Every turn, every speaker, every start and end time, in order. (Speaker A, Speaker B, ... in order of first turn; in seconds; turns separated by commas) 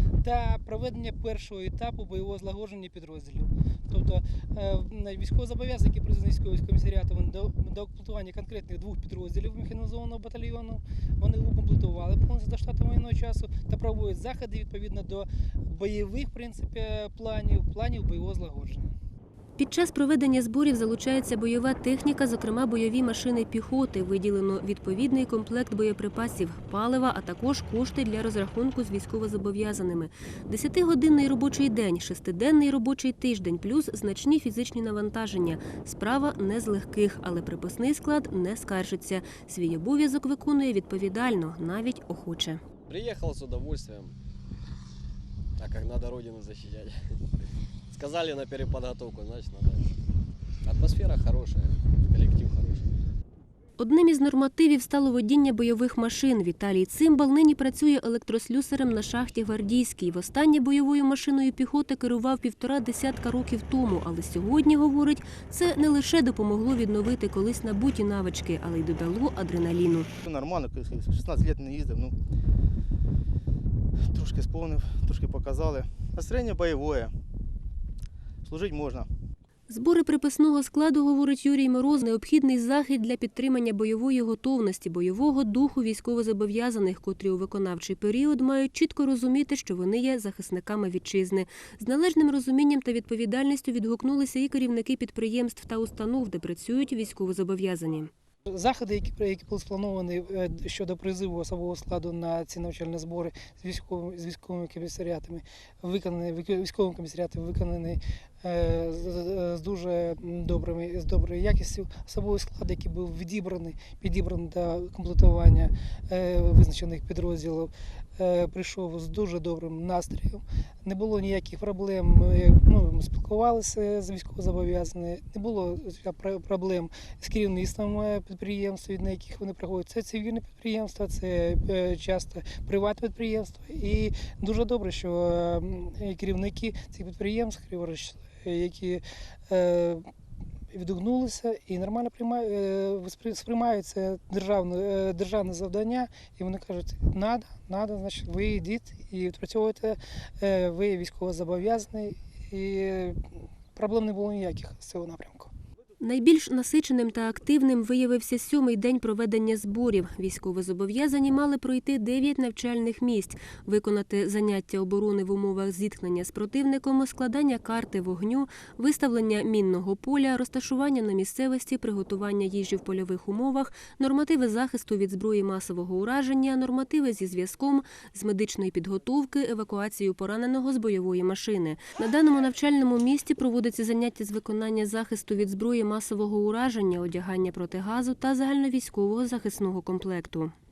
Speaker A: 0.2-18.9, Speaker B: 19.6-42.6, Speaker C: 42.9-44.1, Speaker C: 45.6-47.2, Speaker C: 47.9-50.0, Speaker C: 50.6-52.9, Speaker B: 53.8-70.1, Speaker D: 70.2-72.1, Speaker D: 74.1-77.1, Speaker D: 78.4-79.1, Speaker B: 79.7-98.1, Speaker A: 98.5-140.0, Speaker A: 140.7-153.2, Speaker A: 153.8-155.5, Speaker B: 156.0-190.5